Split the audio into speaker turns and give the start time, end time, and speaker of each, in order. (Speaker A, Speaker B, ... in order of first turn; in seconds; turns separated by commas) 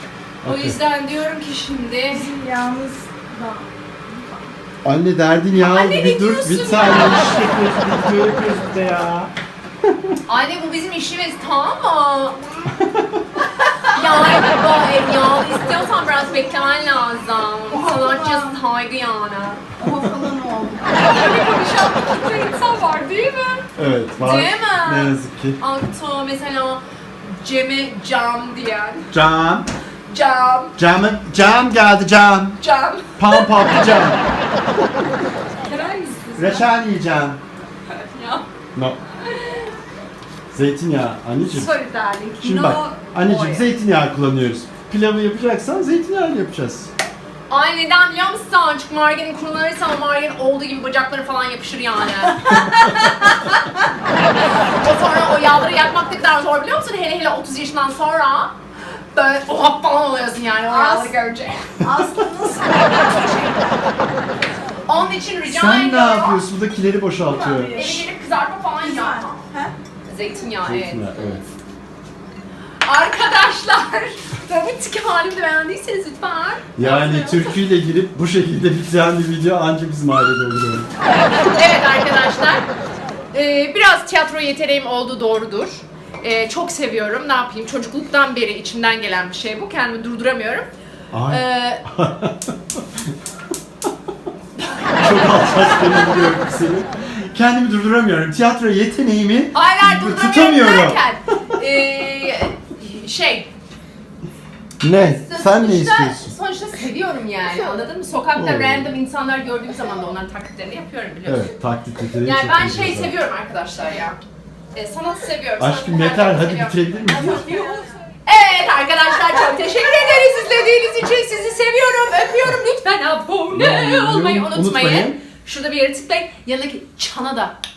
Speaker A: 0.4-0.8, Speaker B: 0.4-2.3, Speaker C: 2.1-4.5, Speaker A: 4.8-9.3, Speaker B: 5.5-7.5, Speaker A: 9.8-10.2, Speaker B: 10.3-12.6, Speaker A: 12.8-13.2, Speaker B: 13.8-19.6, Speaker C: 17.7-18.6, Speaker C: 19.8-20.9, Speaker B: 20.9-23.6, Speaker A: 23.8-25.6, Speaker B: 24.2-29.1, Speaker A: 29.1-29.7, Speaker B: 30.1-30.8, Speaker A: 30.8-32.6, Speaker B: 32.6-33.7, Speaker A: 33.1-34.2, Speaker B: 35.6-36.6, Speaker C: 36.0-36.5, Speaker A: 36.3-37.4, Speaker B: 37.9-38.5, Speaker B: 39.2-39.7, Speaker A: 40.5-41.7, Speaker C: 41.5-43.6, Speaker A: 42.4-46.9, Speaker B: 47.5-58.5, Speaker B: 59.1-61.9, Speaker C: 60.7-61.1, Speaker C: 61.8-63.9, Speaker B: 64.8-66.4, Speaker A: 65.5-67.8, Speaker C: 67.2-68.1, Speaker B: 67.7-69.5, Speaker C: 68.8-69.7, Speaker B: 70.0-71.4, Speaker A: 70.6-71.4, Speaker B: 72.8-77.6, Speaker A: 76.8-80.9, Speaker B: 81.3-82.7, Speaker B: 83.3-90.7, Speaker A: 91.1-93.1, Speaker B: 91.3-91.8, Speaker B: 94.7-95.1, Speaker A: 95.0-101.0, Speaker B: 99.5-103.5, Speaker A: 104.8-106.3, Speaker B: 104.9-111.5, Speaker A: 108.3-108.9, Speaker A: 111.2-113.1, Speaker B: 112.2-114.2, Speaker B: 114.7-117.5, Speaker A: 115.6-117.5, Speaker C: 117.1-118.0, Speaker B: 118.2-127.5, Speaker A: 123.5-125.2